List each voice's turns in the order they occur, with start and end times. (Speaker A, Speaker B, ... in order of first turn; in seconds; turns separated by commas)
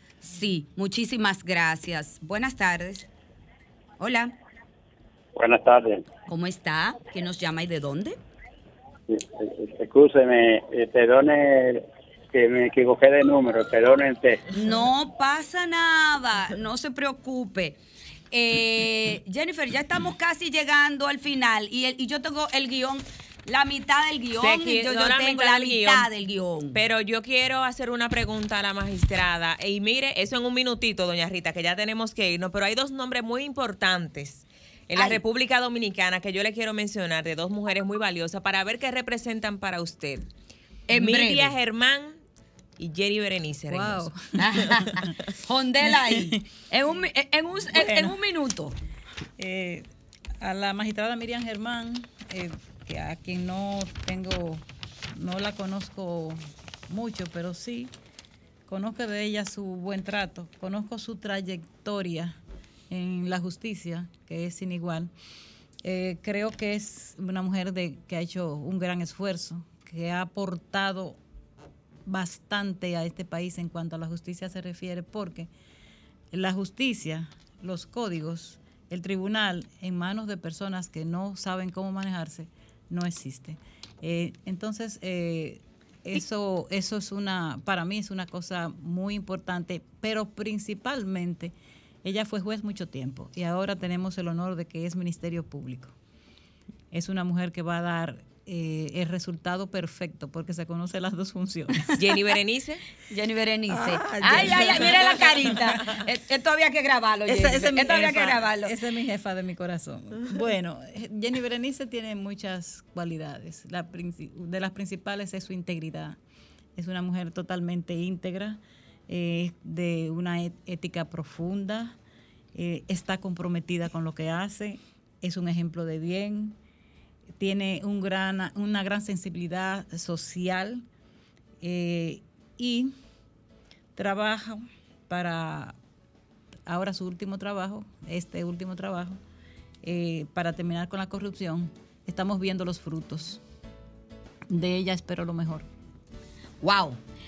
Speaker A: 0.2-3.1, Speaker A: 4.0-4.3, Speaker B: 5.3-6.0, Speaker A: 6.3-8.2, Speaker B: 9.1-14.4, Speaker A: 14.5-17.8, Speaker A: 18.3-26.8, Speaker C: 24.4-26.1, Speaker C: 26.7-40.3, Speaker A: 34.9-35.2, Speaker A: 40.9-41.5, Speaker C: 40.9-42.1, Speaker C: 42.8-44.1, Speaker D: 43.7-45.1, Speaker A: 44.4-48.8, Speaker D: 45.9-46.4, Speaker D: 47.7-48.2, Speaker D: 49.4-49.9, Speaker D: 50.4-57.9, Speaker D: 58.7-65.1, Speaker D: 65.8-71.2, Speaker D: 72.0-75.5, Speaker D: 76.3-95.9, Speaker D: 96.9-102.0, Speaker C: 101.9-102.8, Speaker A: 103.1-108.7, Speaker D: 103.7-106.0, Speaker D: 107.2-116.2, Speaker D: 116.8-122.0, Speaker D: 122.5-126.6, Speaker D: 127.4-130.8, Speaker D: 131.6-132.9, Speaker D: 133.9-135.8, Speaker D: 136.7-139.2, Speaker D: 139.8-143.4, Speaker D: 144.5-145.7, Speaker A: 146.6-147.0